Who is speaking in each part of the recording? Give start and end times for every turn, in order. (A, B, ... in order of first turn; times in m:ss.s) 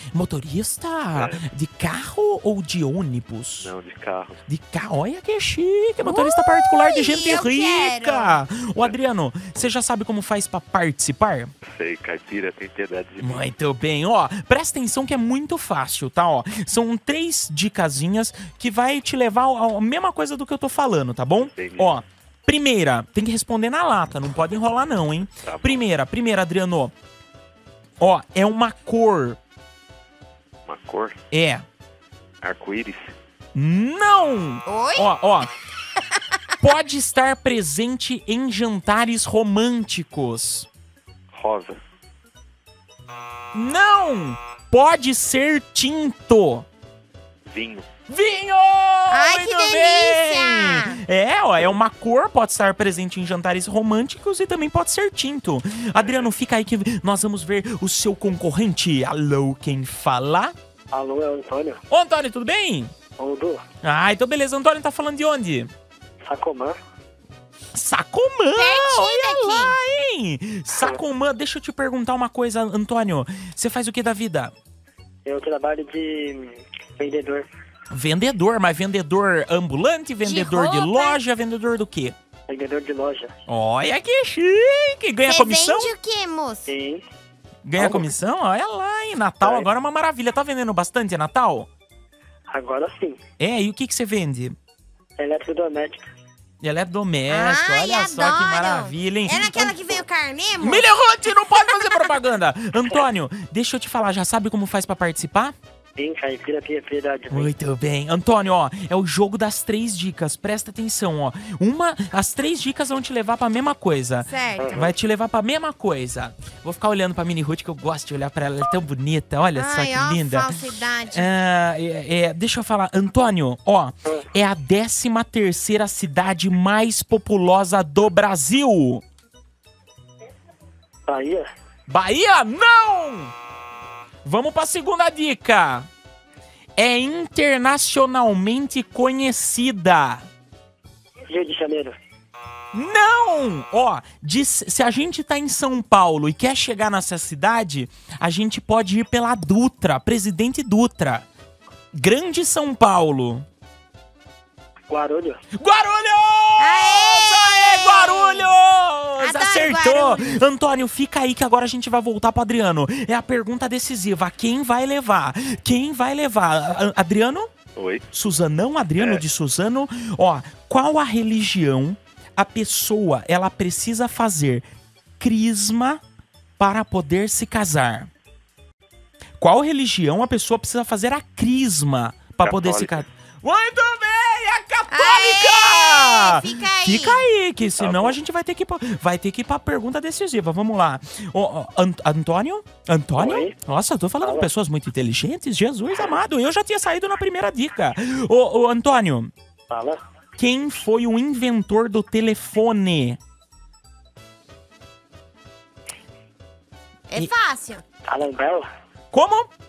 0:00.1-0:03.7 A
0:01.1-0:01.5 B
0:03.6-0:04.4 B
0:04.5-0:11.5 A
0:06.0-0:08.4 C
0:11.6-0:13.5 B
0:13.2-0:26.9 A
0:21.4-0:22.0 B
0:25.4-0:25.9 B
0:28.0-0:29.4 A
0:30.7-0:31.2 B
0:31.3-0:31.6 A
0:32.4-0:33.1 B
0:33.6-0:35.5 A
0:34.7-0:35.1 C
0:36.6-0:40.7 A
0:41.3-0:41.8 B
0:43.5-0:46.7 A
0:47.5-0:47.9 B
0:48.1-1:00.5 A
0:49.1-0:51.0 C
0:56.0-0:56.3 B
1:00.9-1:01.8 D
1:01.9-1:02.9 A
1:03.2-1:03.6 D
1:03.8-1:05.7 A
1:06.3-1:06.8 D
1:07.8-1:14.5 A
1:08.6-1:09.8 C
1:10.7-1:11.0 D
1:15.2-1:17.5 D
1:17.9-1:22.2 A
1:20.2-1:21.2 C
1:22.5-1:23.3 D
1:23.5-1:25.9 A
1:25.3-1:26.7 C
1:26.7-1:27.0 D
1:27.6-1:31.7 A
1:27.8-1:28.1 D
1:29.4-1:29.7 D
1:32.5-1:33.2 D
1:33.4-1:34.6 A
1:35.2-1:36.1 D
1:36.6-1:40.0 A
1:37.3-1:42.1 C
1:40.6-1:45.6 A
1:46.0-1:47.5 D
1:47.3-2:00.6 A
1:54.2-1:54.9 C
1:54.6-1:54.9 D
1:59.6-2:01.3 C
2:01.1-2:09.0 A
2:11.1-2:11.5 D
2:11.9-2:13.3 A
2:14.2-2:15.9 A
2:16.8-2:20.2 A
2:21.3-2:22.0 D
2:22.7-2:31.3 A
2:31.9-2:33.4 A
2:34.9-2:35.4 D
2:35.6-2:47.5 A
2:36.6-2:38.5 C
2:39.2-2:40.4 C
2:47.8-2:48.3 B
2:48.1-2:54.6 A
2:49.0-2:49.2 B
2:55.2-2:56.0 A
2:56.6-2:58.1 A
2:59.4-3:19.3 A
3:02.4-3:03.1 B
3:04.9-3:07.2 C
3:07.8-3:08.2 D
3:13.2-3:13.6 D
3:14.2-3:14.5 D
3:19.7-3:20.0 D
3:20.4-3:23.2 A
3:27.1-3:27.8 C
3:28.1-3:28.7 D
3:29.1-3:29.5 A